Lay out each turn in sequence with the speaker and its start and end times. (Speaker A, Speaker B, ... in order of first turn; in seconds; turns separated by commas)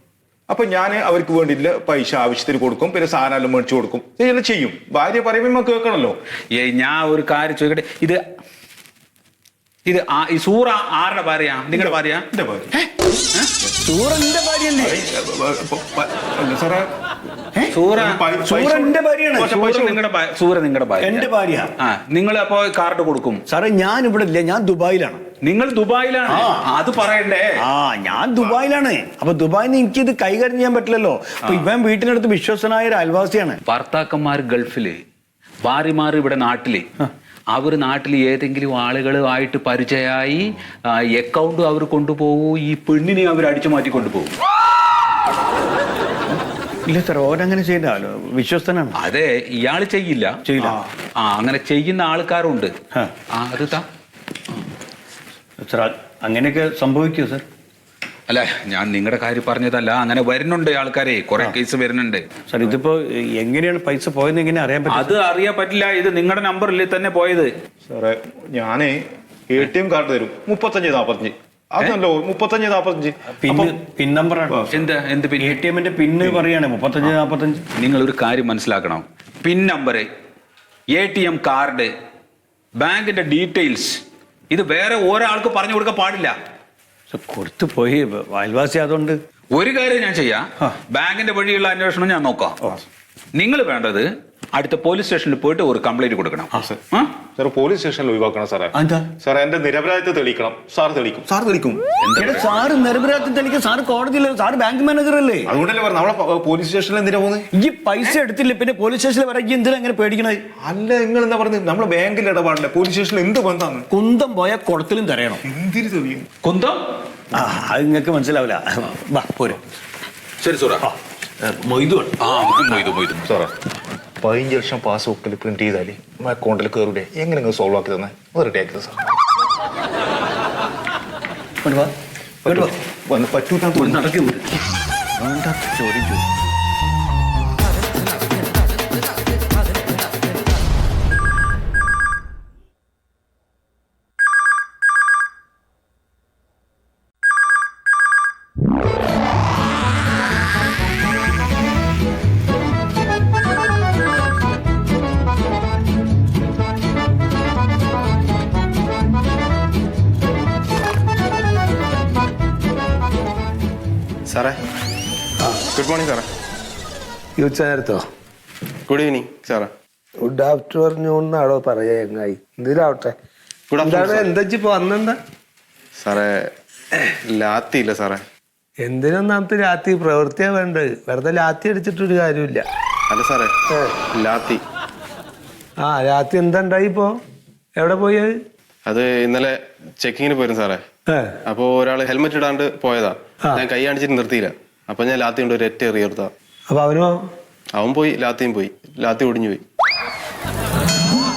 Speaker A: 0.5-6.2, Speaker B: 6.5-8.2, Speaker B: 9.8-12.2, Speaker A: 11.7-12.7, Speaker C: 13.8-15.0, Speaker A: 14.8-16.9, Speaker B: 17.7-18.2, Speaker A: 17.9-20.0, Speaker C: 18.4-19.7, Speaker B: 19.4-23.4, Speaker C: 21.0-21.7, Speaker C: 23.5-25.2, Speaker B: 25.4-27.6, Speaker C: 26.3-26.6, Speaker C: 27.6-33.6, Speaker B: 33.6-35.0, Speaker B: 35.6-36.9, Speaker B: 37.5-44.3, Speaker C: 46.9-49.0, Speaker B: 48.9-52.7, Speaker C: 50.5-50.8, Speaker B: 53.3-53.9, Speaker C: 55.6-57.4, Speaker B: 58.3-62.3, Speaker C: 62.5-65.2, Speaker B: 64.9-67.5, Speaker A: 67.8-69.0, Speaker A: 69.5-73.8, Speaker C: 73.3-74.6, Speaker B: 74.7-75.6, Speaker C: 75.4-77.6, Speaker B: 77.8-80.1, Speaker B: 80.9-81.9, Speaker B: 82.8-84.0, Speaker B: 84.5-86.3, Speaker C: 87.1-89.2, Speaker B: 89.5-92.6, Speaker B: 93.3-97.1, Speaker A: 97.3-101.8, Speaker C: 98.7-99.1, Speaker B: 102.0-102.5, Speaker C: 102.2-105.5, Speaker A: 105.5-107.5, Speaker C: 107.5-110.4, Speaker A: 110.6-113.9, Speaker C: 113.9-115.4, Speaker A: 115.4-116.3, Speaker B: 116.4-116.8, Speaker C: 117.3-119.6, Speaker B: 120.4-120.8, Speaker C: 120.8-122.1, Speaker B: 122.2-123.3, Speaker A: 123.2-123.5, Speaker A: 124.2-129.1, Speaker C: 131.6-131.9, Speaker C: 132.4-132.8, Speaker A: 132.4-134.1, Speaker C: 133.7-134.5, Speaker C: 135.2-136.2, Speaker D: 164.3-164.6, Speaker D: 165.7-166.2, Speaker E: 167.4-168.0, Speaker D: 168.9-169.7, Speaker E: 170.2-173.1, Speaker D: 173.7-174.3, Speaker E: 173.8-175.2, Speaker D: 176.0-176.5, Speaker D: 177.3-178.2, Speaker E: 178.8-182.6, Speaker D: 183.1-183.5, Speaker E: 183.7-184.0, Speaker D: 184.1-184.6, Speaker E: 185.8-187.1, Speaker E: 187.8-188.3, Speaker D: 188.8-190.8, Speaker E: 191.1-191.3, Speaker D: 191.4-196.3, Speaker E: 196.7-197.2, Speaker D: 197.7-199.6